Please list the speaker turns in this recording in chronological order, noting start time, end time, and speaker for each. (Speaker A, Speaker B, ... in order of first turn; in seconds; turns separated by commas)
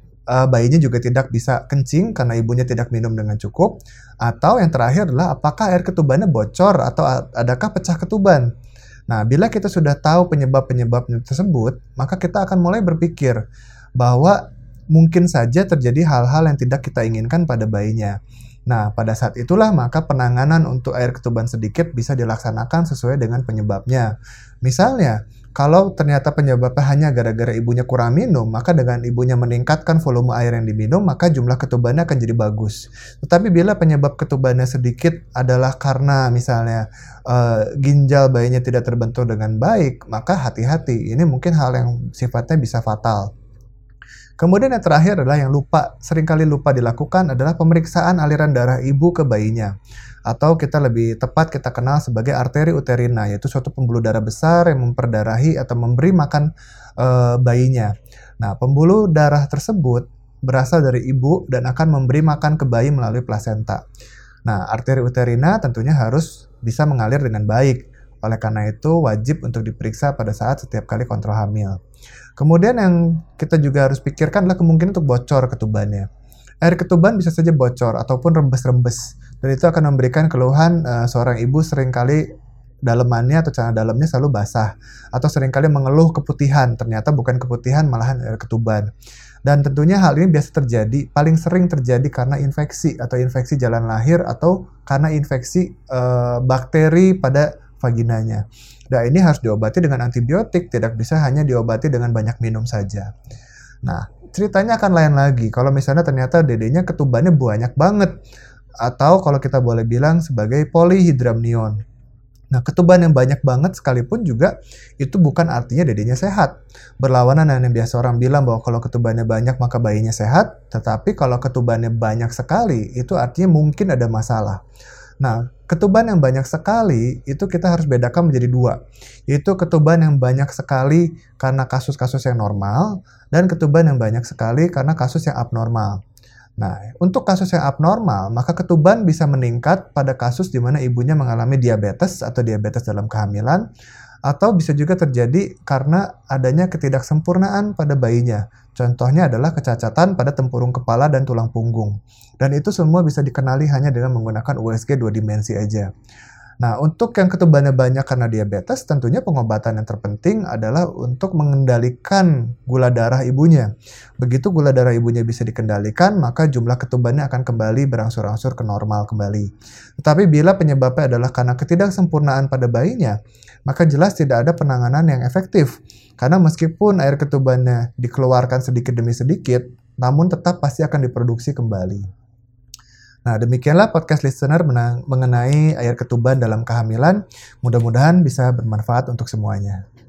Speaker A: 0.3-8.5, Speaker A: 9.1-13.4, Speaker A: 14.0-14.4, Speaker A: 14.9-18.1, Speaker A: 18.7-24.1, Speaker A: 24.6-43.3, Speaker A: 44.4-49.7, Speaker A: 50.3-63.8, Speaker A: 64.4-71.8, Speaker A: 72.4-76.0, Speaker A: 76.6-82.2, Speaker A: 82.9-88.9, Speaker A: 89.4-103.1, Speaker A: 103.8-108.1, Speaker A: 108.8-111.7, Speaker A: 112.5-124.6, Speaker A: 125.2-128.8, Speaker A: 129.3-136.0, Speaker A: 136.6-143.6, Speaker A: 144.3-155.9, Speaker A: 156.6-173.1, Speaker A: 173.7-182.1, Speaker A: 183.2-189.8